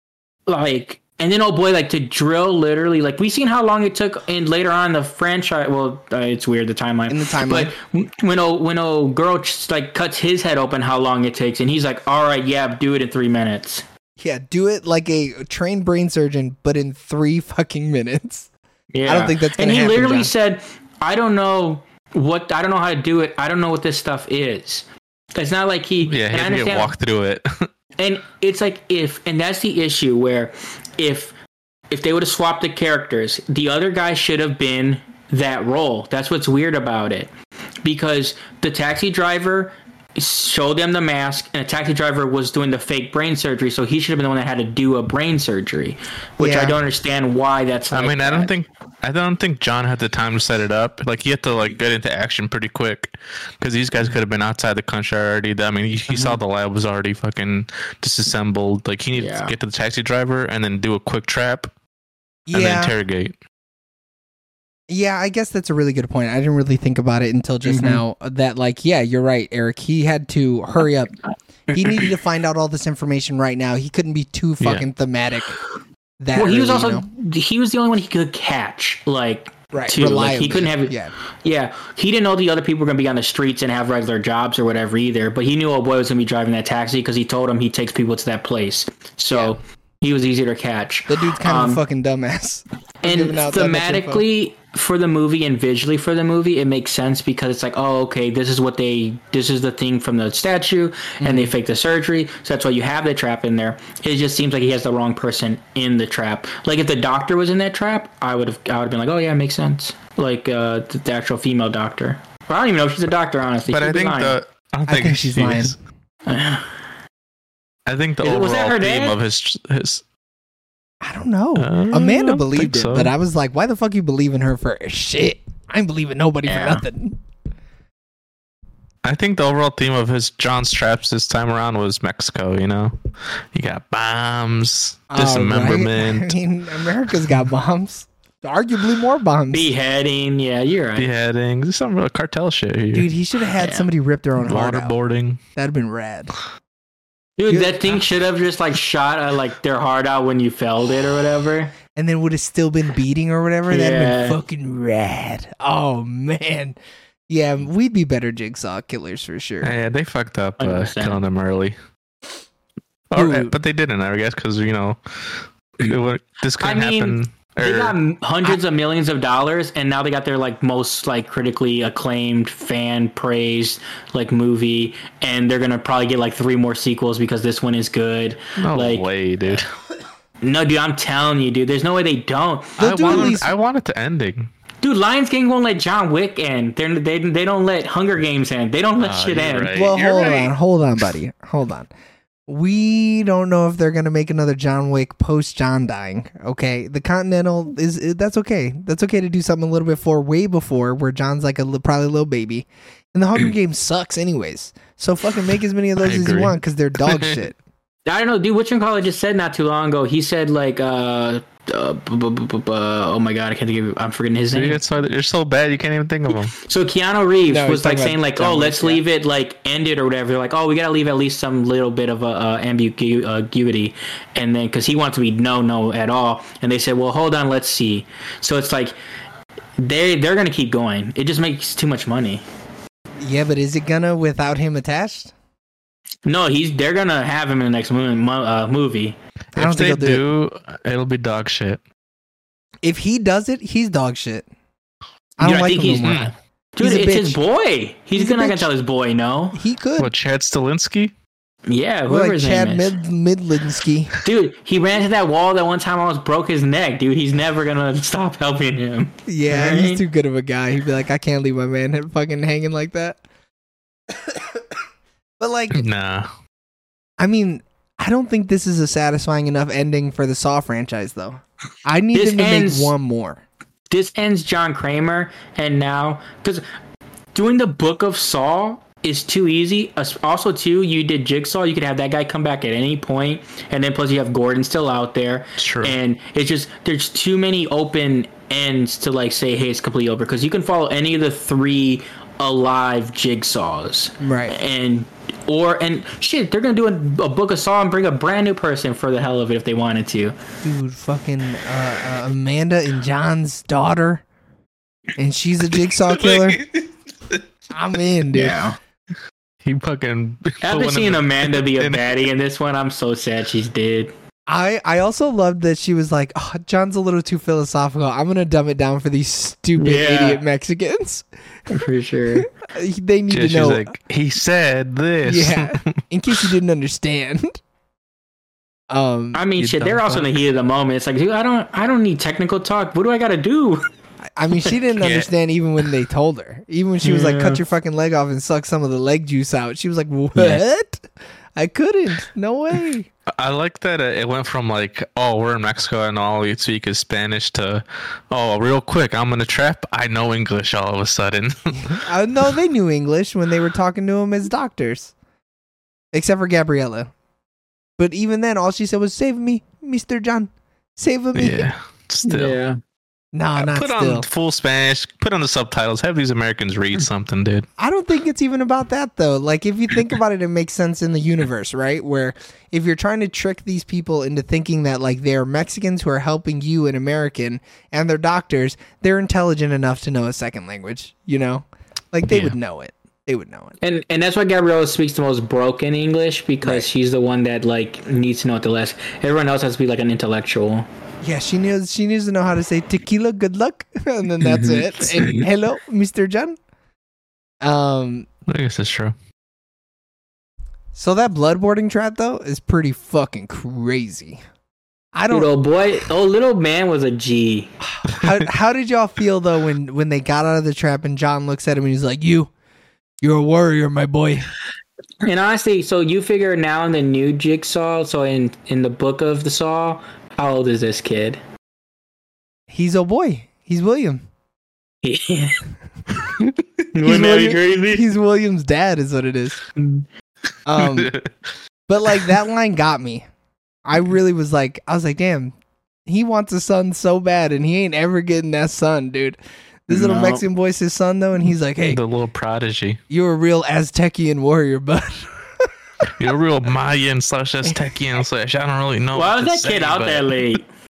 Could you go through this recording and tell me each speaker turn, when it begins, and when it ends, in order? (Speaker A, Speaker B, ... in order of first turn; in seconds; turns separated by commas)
Speaker A: 0.5-13.8, Speaker B: 7.1-7.7, Speaker B: 14.2-18.5, Speaker A: 18.9-26.9, Speaker B: 19.1-20.3, Speaker C: 26.1-27.7, Speaker A: 28.0-31.3, Speaker A: 31.9-37.3, Speaker A: 37.8-48.5, Speaker B: 46.4-46.8, Speaker C: 47.9-61.7, Speaker A: 59.1-59.5, Speaker B: 62.5-62.9, Speaker C: 62.5-63.4, Speaker B: 64.9-71.2, Speaker A: 67.7-68.0, Speaker B: 71.7-75.5, Speaker C: 74.6-74.9, Speaker B: 76.2-77.0, Speaker A: 76.3-91.8, Speaker B: 79.7-81.1, Speaker B: 89.3-89.6, Speaker B: 91.1-94.2, Speaker A: 93.0-114.4, Speaker B: 101.2-101.5, Speaker C: 113.7-115.8, Speaker B: 114.9-115.8, Speaker A: 116.3-116.8, Speaker C: 117.9-120.0, Speaker A: 118.2-119.2, Speaker B: 121.0-127.2, Speaker C: 121.5-123.1, Speaker A: 126.5-126.8, Speaker C: 129.0-133.0, Speaker C: 133.5-136.4, Speaker B: 135.1-139.7, Speaker A: 139.5-141.1, Speaker C: 141.0-143.1, Speaker B: 142.9-144.9, Speaker A: 143.6-143.9, Speaker C: 144.4-145.4, Speaker B: 145.6-146.3, Speaker A: 147.4-151.8, Speaker B: 147.5-148.0, Speaker B: 151.9-156.8, Speaker A: 153.7-154.4, Speaker B: 157.3-159.7, Speaker C: 159.6-161.8, Speaker A: 160.6-161.2, Speaker C: 163.1-168.0, Speaker B: 163.2-163.5, Speaker A: 166.6-179.1, Speaker C: 178.6-179.7, Speaker A: 180.4-183.3, Speaker B: 182.8-183.5, Speaker C: 182.8-184.5, Speaker A: 184.8-189.7, Speaker C: 189.0-190.5, Speaker B: 189.7-191.9, Speaker B: 192.5-207.6, Speaker C: 206.0-207.4, Speaker A: 208.1-214.8, Speaker C: 214.5-216.6, Speaker A: 216.6-228.9, Speaker B: 217.5-219.0, Speaker A: 229.8-232.4, Speaker B: 233.2-235.3, Speaker A: 236.2-239.2, Speaker B: 239.6-240.2, Speaker C: 239.6-241.8, Speaker B: 242.8-244.4, Speaker B: 245.4-247.4, Speaker A: 245.4-249.6, Speaker B: 248.1-248.7, Speaker B: 249.5-250.1, Speaker C: 250.0-251.1, Speaker A: 251.7-252.9, Speaker B: 252.1-254.2, Speaker A: 254.2-260.0, Speaker B: 259.3-263.2, Speaker B: 265.4-265.8, Speaker C: 265.7-266.3, Speaker B: 267.2-273.4, Speaker A: 272.1-272.9, Speaker A: 273.9-276.6, Speaker A: 277.3-300.4, Speaker C: 285.6-285.9, Speaker B: 294.2-294.6, Speaker B: 300.6-304.2, Speaker B: 305.2-306.6, Speaker C: 306.1-306.9, Speaker B: 307.7-308.6, Speaker A: 308.3-308.8, Speaker C: 309.6-312.2, Speaker A: 310.6-314.1, Speaker B: 314.5-321.3, Speaker A: 319.8-320.4, Speaker A: 321.7-322.5, Speaker B: 322.4-323.9, Speaker C: 323.3-326.0, Speaker B: 325.2-327.6, Speaker B: 328.9-329.8, Speaker A: 329.3-333.9, Speaker C: 329.6-330.2, Speaker B: 334.3-343.1, Speaker C: 335.0-335.3, Speaker A: 337.0-337.6, Speaker C: 343.4-352.0, Speaker B: 351.9-355.1, Speaker B: 356.1-357.1, Speaker B: 358.0-361.7, Speaker C: 361.4-362.6, Speaker A: 362.2-362.8, Speaker B: 363.3-364.3, Speaker C: 363.6-367.6, Speaker B: 367.8-383.8, Speaker C: 382.3-382.6, Speaker A: 383.8-390.9, Speaker B: 386.6-386.9, Speaker B: 391.2-396.6, Speaker A: 394.4-395.4, Speaker B: 397.6-398.3, Speaker C: 398.5-399.1, Speaker B: 400.9-404.4, Speaker B: 405.1-405.5, Speaker A: 405.3-407.8, Speaker B: 408.0-412.5, Speaker C: 408.1-408.4, Speaker B: 413.2-414.5, Speaker A: 415.2-421.4, Speaker B: 422.7-424.2, Speaker A: 425.0-425.6, Speaker C: 426.4-427.5, Speaker A: 426.9-428.1, Speaker B: 427.9-429.6, Speaker A: 429.8-430.1, Speaker B: 430.7-431.1, Speaker C: 430.8-431.3, Speaker B: 431.9-433.2, Speaker B: 433.9-435.6, Speaker B: 436.1-442.0, Speaker A: 439.9-440.4, Speaker C: 441.9-443.0, Speaker B: 443.1-445.7, Speaker C: 446.2-450.6, Speaker A: 449.1-450.7